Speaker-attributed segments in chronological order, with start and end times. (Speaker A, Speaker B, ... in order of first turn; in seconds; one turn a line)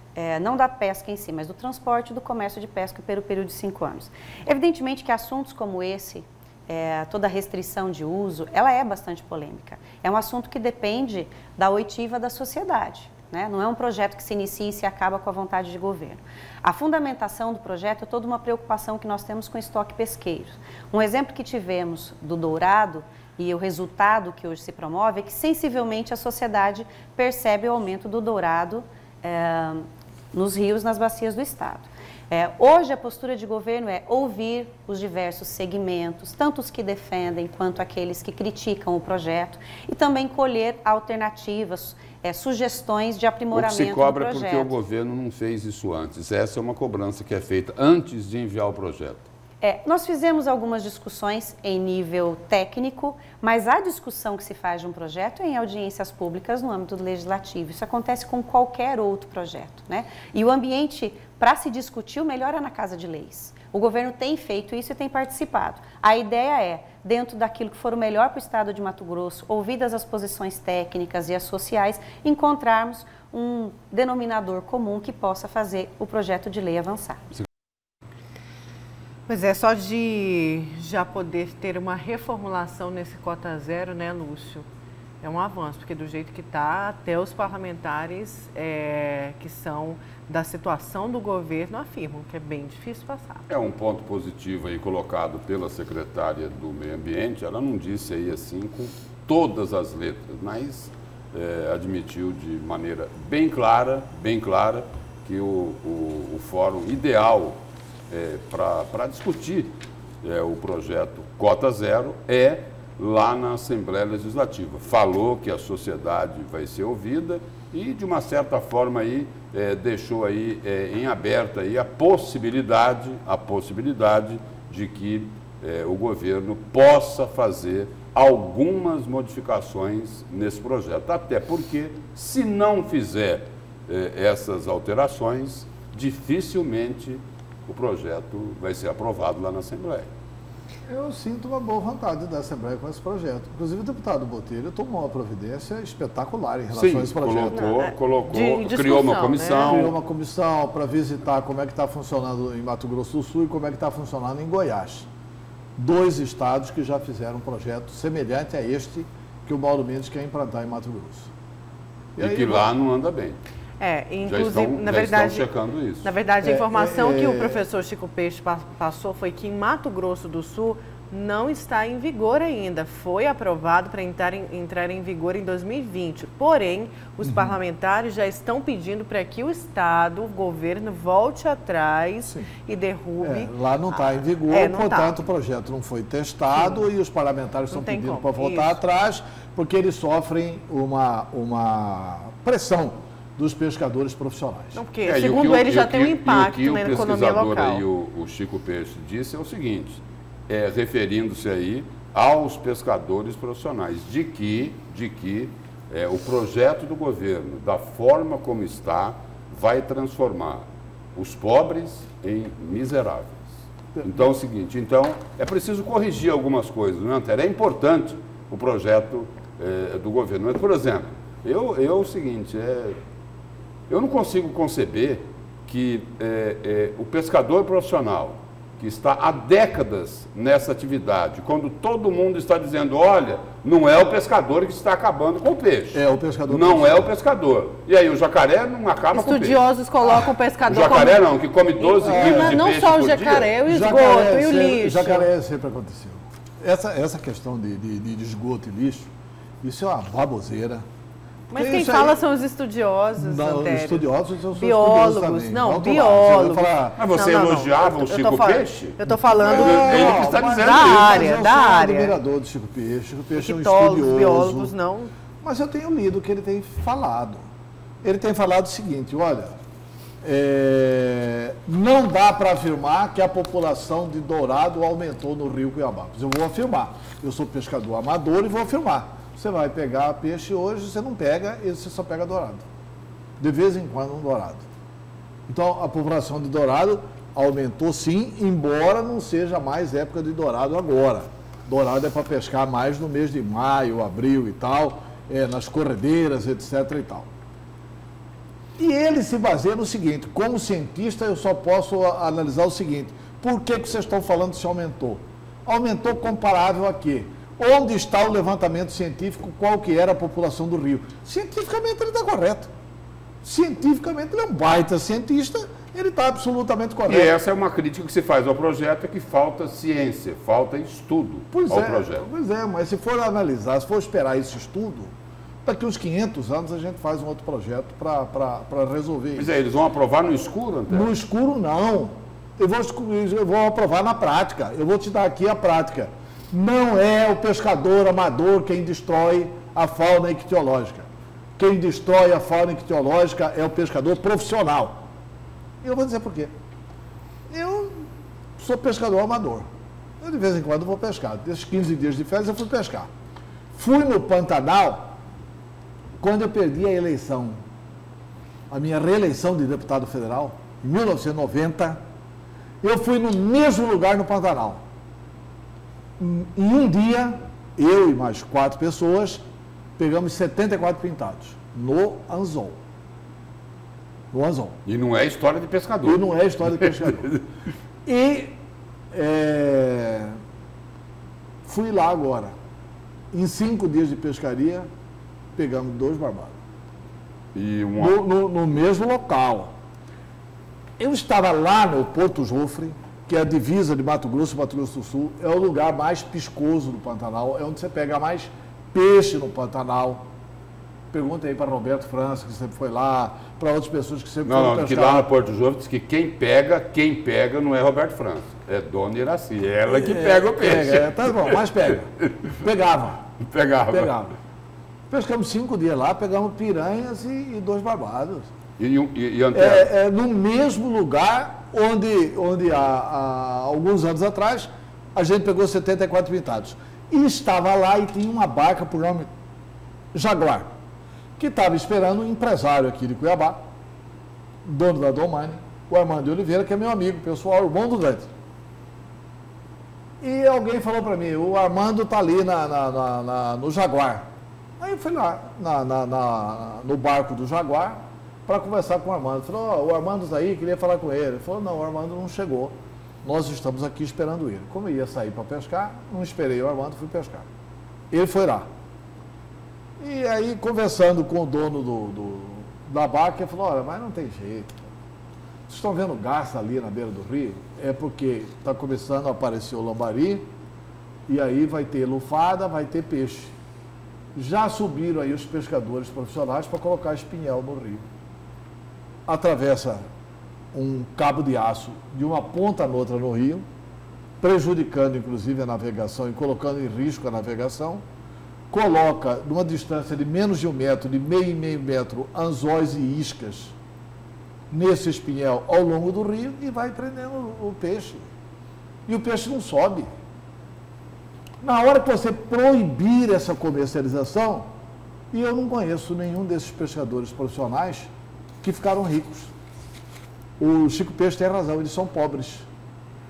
Speaker A: 0.1-44.7
Speaker B: 43.5-49.3
Speaker A: 49.6-77.2
Speaker C: 79.3-84.7
Speaker C: 85.2-93.5
Speaker B: 93.5-140.1
Speaker D: 140.9-147.6
Speaker B: 146.7-149.9
Speaker C: 147.5-149.8
Speaker D: 149.7-155.1
Speaker D: 155.8-161.3
Speaker D: 162.2-162.7
Speaker B: 162.2-163.4
Speaker C: 163.8-165.5
Speaker B: 164.2-166.1
Speaker C: 166.0-185.2
Speaker D: 166.4-167.6
Speaker D: 177.2-177.6
Speaker D: 182.2-182.5
Speaker D: 183.2-194.8
Speaker C: 187.7-188.8
Speaker C: 194.8-197.8
Speaker B: 195.0-223.0
Speaker D: 214.0-214.2
Speaker B: 223.9-239.7
Speaker D: 235.9-237.1
Speaker C: 239.1-241.2
Speaker B: 240.7-243.5
Speaker C: 241.8-245.3
Speaker D: 242.0-242.7
Speaker D: 243.7-249.1
Speaker D: 249.6-250.9
Speaker C: 251.5-262.1
Speaker D: 251.5-252.2
Speaker D: 253.2-257.0
Speaker B: 257.0-261.0
Speaker D: 259.3-264.7
Speaker C: 263.4-265.1
Speaker D: 265.4-267.5
Speaker D: 268.0-269.6
Speaker D: 270.2-282.6
Speaker D: 283.4-284.7
Speaker D: 285.5-297.3
Speaker D: 298.8-312.7
Speaker D: 313.4-317.3
Speaker B: 317.1-322.2
Speaker D: 321.5-325.1
Speaker D: 325.6-329.5
Speaker B: 329.4-331.1
Speaker D: 330.9-345.1
Speaker D: 345.8-346.5
Speaker D: 347.5-349.7
Speaker D: 350.2-353.1
Speaker D: 353.7-355.1
Speaker D: 356.2-357.6
Speaker D: 358.7-362.0
Speaker D: 362.8-364.8
Speaker D: 366.2-369.4
Speaker D: 370.0-372.8
Speaker D: 374.3-374.8
Speaker B: 374.9-377.4
Speaker D: 376.0-377.3
Speaker D: 378.1-378.6
Speaker D: 379.1-380.4
Speaker D: 381.6-382.5
Speaker D: 383.3-384.9
Speaker D: 385.6-386.6
Speaker B: 387.5-388.2
Speaker D: 388.0-389.7
Speaker D: 391.0-400.3
Speaker D: 401.1-405.3
Speaker B: 404.4-411.6
Speaker D: 409.9-413.2
Speaker B: 413.5-414.1
Speaker D: 413.9-414.3
Speaker D: 415.1-418.5
Speaker B: 418.8-419.9
Speaker D: 419.5-429.3
Speaker D: 430.1-430.7
Speaker D: 431.4-433.6
Speaker D: 434.6-438.3
Speaker D: 440.2-444.3
Speaker D: 444.8-457.5
Speaker D: 458.1-458.7
Speaker D: 460.0-464.8
Speaker D: 465.7-470.5
Speaker D: 471.3-473.5
Speaker D: 474.3-478.1
Speaker D: 479.3-480.1
Speaker D: 480.7-483.6
Speaker D: 484.4-488.0
Speaker D: 488.7-493.8
Speaker D: 494.7-498.3
Speaker D: 499.1-500.1
Speaker D: 501.6-504.7
Speaker D: 505.3-508.1
Speaker D: 508.6-509.5
Speaker D: 510.6-512.7